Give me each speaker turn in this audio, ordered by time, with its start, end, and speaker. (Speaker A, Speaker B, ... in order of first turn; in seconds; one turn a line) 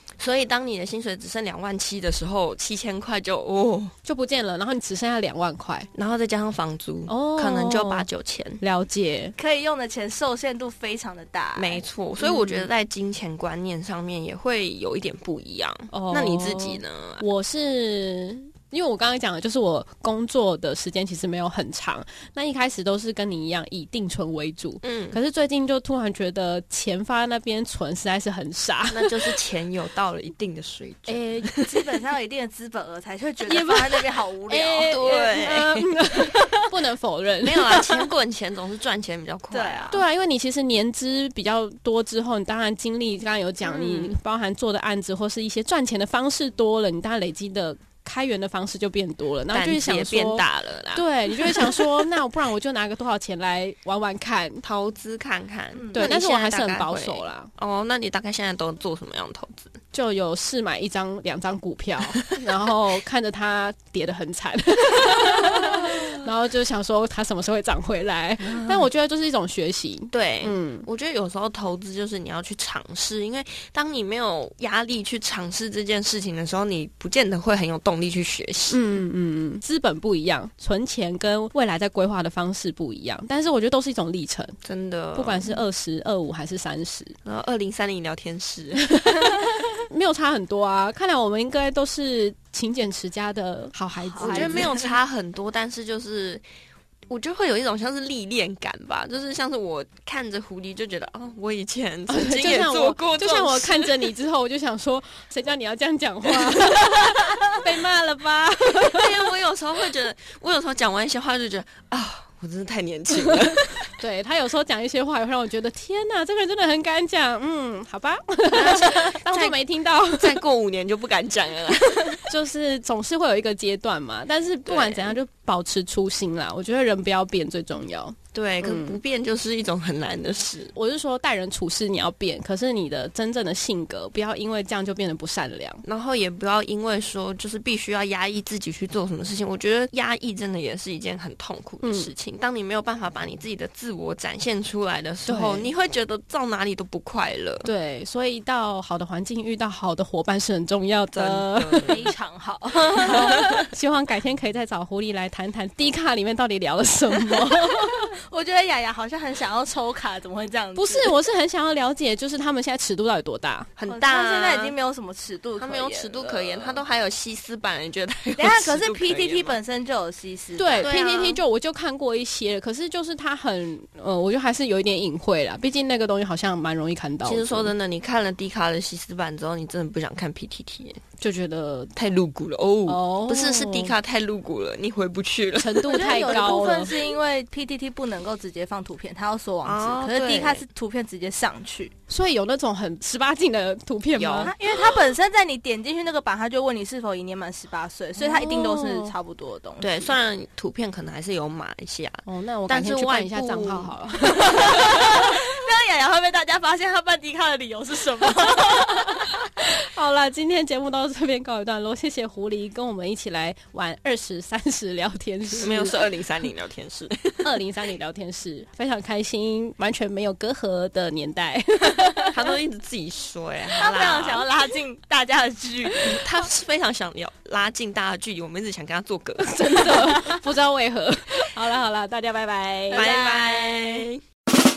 Speaker A: 0.2-3.9
Speaker B: 4.0-5.9
Speaker A: 6.0-8.6
Speaker B: 7.1-8.1
Speaker B: 8.6-9.3
Speaker C: 9.4-11.8
Speaker A: 11.6-17.2
Speaker B: 12.2-12.7
Speaker B: 15.9-29.4
Speaker A: 24.8-25.2
Speaker A: 28.9-31.8
Speaker B: 31.1-31.6
Speaker C: 31.6-35.3
Speaker B: 33.4-37.9
Speaker A: 34.9-35.9
Speaker A: 37.4-40.0
Speaker C: 39.5-40.0
Speaker B: 39.9-50.4
Speaker A: 43.7-44.1
Speaker A: 49.5-52.0
Speaker B: 51.0-54.6
Speaker A: 54.6-59.8
Speaker C: 55.8-56.1
Speaker B: 55.9-57.5
Speaker B: 59.9-70.9
Speaker A: 65.3-66.1
Speaker A: 68.5-68.8
Speaker A: 70.1-78.8
Speaker B: 78.7-84.6
Speaker A: 84.6-85.6
Speaker B: 85.2-87.2
Speaker A: 87.2-89.3
Speaker B: 88.8-94.9
Speaker C: 94.0-94.8
Speaker A: 94.2-96.4
Speaker A: 97.1-104.1
Speaker B: 102.1-109.3
Speaker A: 108.8-114.0
Speaker B: 113.9-120.4
Speaker A: 118.5-122.3
Speaker B: 122.2-129.0
Speaker A: 124.7-125.2
Speaker A: 128.3-130.7
Speaker B: 130.8-135.8
Speaker A: 135.8-147.7
Speaker B: 141.8-142.1
Speaker B: 145.3-145.7
Speaker B: 147.7-152.1
Speaker A: 151.1-152.1
Speaker C: 151.9-153.5
Speaker B: 153.0-158.2
Speaker A: 153.0-153.6
Speaker C: 157.7-161.1
Speaker B: 160.8-163.7
Speaker A: 163.8-164.7
Speaker C: 163.9-166.8
Speaker A: 165.6-169.6
Speaker C: 168.4-171.0
Speaker B: 170.6-177.7
Speaker A: 170.8-171.4
Speaker A: 177.2-181.0
Speaker B: 181.2-181.9
Speaker A: 181.9-186.6
Speaker B: 182.9-183.9
Speaker B: 185.6-186.9
Speaker C: 185.9-191.9
Speaker A: 189.6-190.6
Speaker B: 192.1-194.5
Speaker A: 194.2-194.5
Speaker C: 194.4-200.1
Speaker B: 198.2-199.1
Speaker A: 199.8-203.9
Speaker B: 202.3-205.3
Speaker C: 204.4-209.5
Speaker B: 209.6-216.1
Speaker A: 215.6-217.5
Speaker B: 217.4-222.4
Speaker A: 222.3-224.5
Speaker C: 223.7-226.2
Speaker A: 226.0-229.7
Speaker B: 229.4-233.1
Speaker C: 229.9-230.4
Speaker C: 232.9-234.1
Speaker A: 232.9-234.2